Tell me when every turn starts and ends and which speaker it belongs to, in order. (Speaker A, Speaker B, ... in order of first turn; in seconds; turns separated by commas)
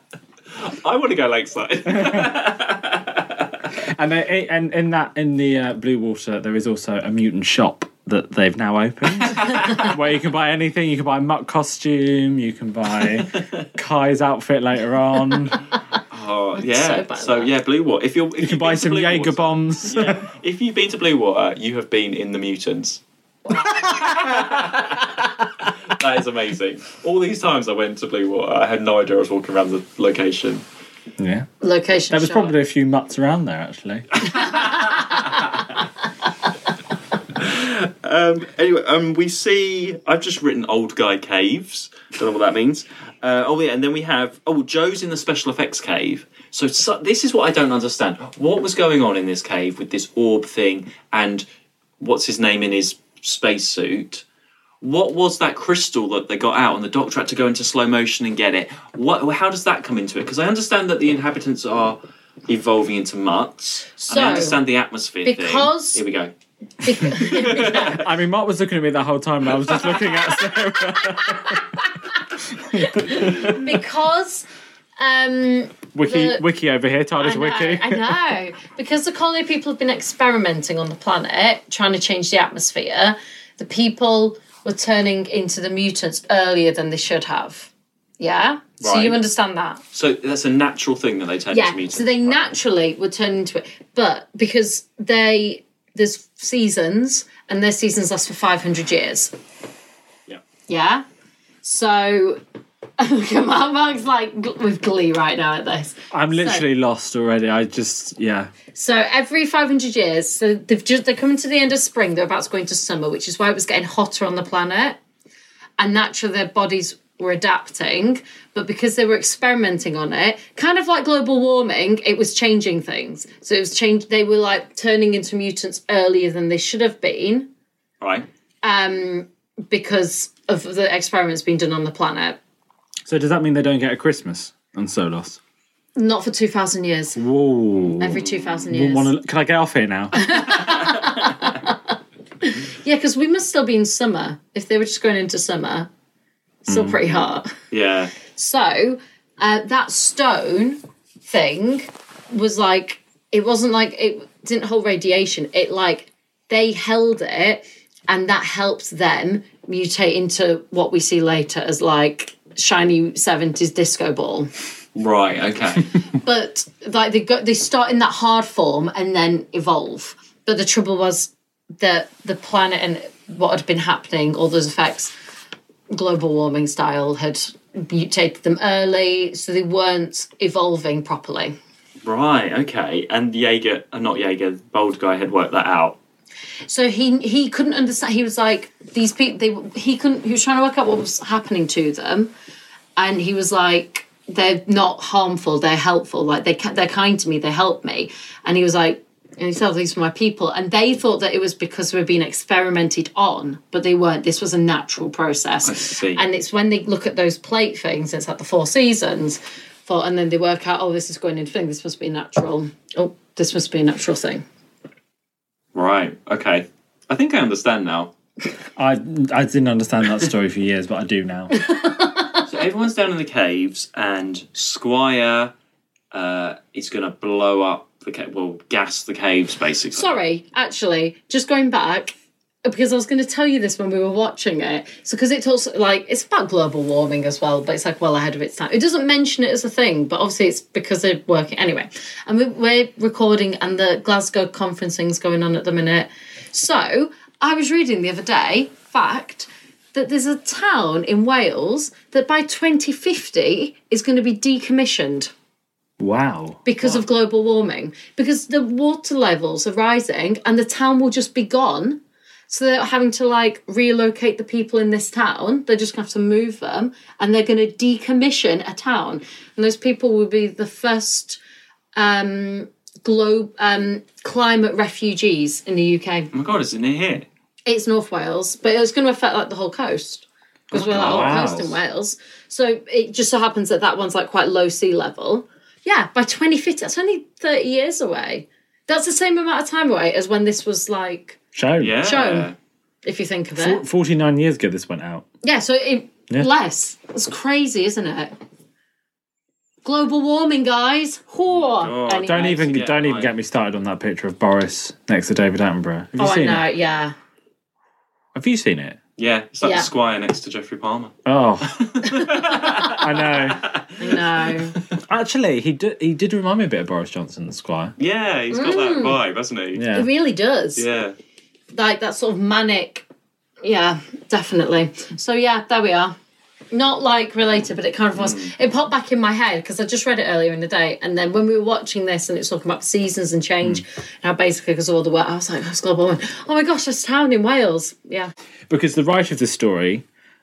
Speaker A: 0.5-3.6, Speaker B: 1.9-2.4, Speaker B: 3.8-15.6, Speaker A: 9.2-9.9, Speaker A: 13.1-13.7, Speaker A: 16.1-23.0, Speaker C: 16.6-17.5, Speaker B: 18.4-20.3, Speaker A: 23.7-30.6, Speaker B: 31.2-31.5, Speaker C: 31.6-32.5, Speaker B: 32.1-34.5, Speaker A: 34.6-35.4, Speaker C: 34.6-35.4, Speaker A: 37.4-51.5, Speaker A: 52.0-54.2, Speaker A: 54.8-66.3, Speaker C: 64.0-64.6, Speaker C: 65.2-66.0, Speaker C: 66.8-68.0, Speaker A: 67.0-68.1, Speaker B: 67.6-71.6, Speaker C: 71.0-71.6, Speaker B: 72.5-73.7, Speaker C: 72.8-74.5, Speaker C: 75.0-76.5, Speaker B: 75.9-78.2, Speaker C: 77.2-89.8, Speaker A: 88.8-89.2, Speaker A: 89.9-92.4, Speaker C: 91.5-99.3, Speaker C: 100.7-101.0, Speaker C: 101.6-102.4, Speaker C: 103.0-106.6, Speaker B: 106.1-108.5, Speaker C: 108.7-115.0, Speaker C: 115.8-127.5, Speaker A: 128.0-128.3, Speaker C: 128.6-132.4, Speaker B: 133.1-135.4, Speaker C: 135.9-137.2, Speaker B: 137.2-140.4, Speaker C: 138.0-139.1, Speaker C: 140.1-145.9, Speaker C: 146.6-147.5, Speaker B: 146.7-147.0, Speaker A: 147.7-148.1, Speaker C: 148.3-164.5, Speaker A: 164.9-165.9, Speaker C: 166.1-175.1, Speaker C: 175.9-181.6, Speaker A: 182.1-186.0, Speaker C: 186.7-192.3, Speaker C: 193.0-214.4, Speaker A: 205.6-206.2, Speaker A: 215.7-218.1, Speaker B: 218.8-221.6, Speaker C: 221.5-222.5, Speaker A: 222.5-225.5, Speaker A: 226.1-230.2, Speaker C: 229.9-232.1, Speaker C: 232.6-255.3, Speaker B: 256.0-256.6, Speaker C: 256.7-271.4, Speaker C: 271.9-276.3, Speaker A: 276.3-277.3, Speaker C: 277.7-291.4, Speaker A: 280.7-281.8, Speaker B: 280.7-281.8, Speaker B: 291.5-292.0, Speaker A: 291.8-292.6, Speaker C: 292.0-292.5, Speaker C: 293.1-293.8, Speaker B: 293.6-295.3, Speaker C: 295.4-298.3, Speaker C: 299.8-302.6, Speaker A: 301.5-303.3, Speaker B: 302.2-306.7, Speaker C: 306.2-307.1, Speaker B: 308.4-309.0, Speaker A: 309.2-311.2, Speaker C: 309.6-309.9, Speaker B: 311.3-311.8, Speaker A: 311.7-314.8, Speaker C: 312.0-312.9, Speaker B: 312.4-313.6, Speaker C: 314.0-314.8, Speaker B: 315.1-317.9, Speaker A: 318.0-319.9, Speaker C: 318.5-319.2, Speaker B: 319.8-320.1, Speaker C: 319.9-320.9, Speaker A: 320.8-321.2, Speaker C: 321.7-323.1, Speaker C: 323.6-326.2, Speaker C: 326.7-338.3, Speaker A: 328.2-328.5, Speaker B: 338.7-340.0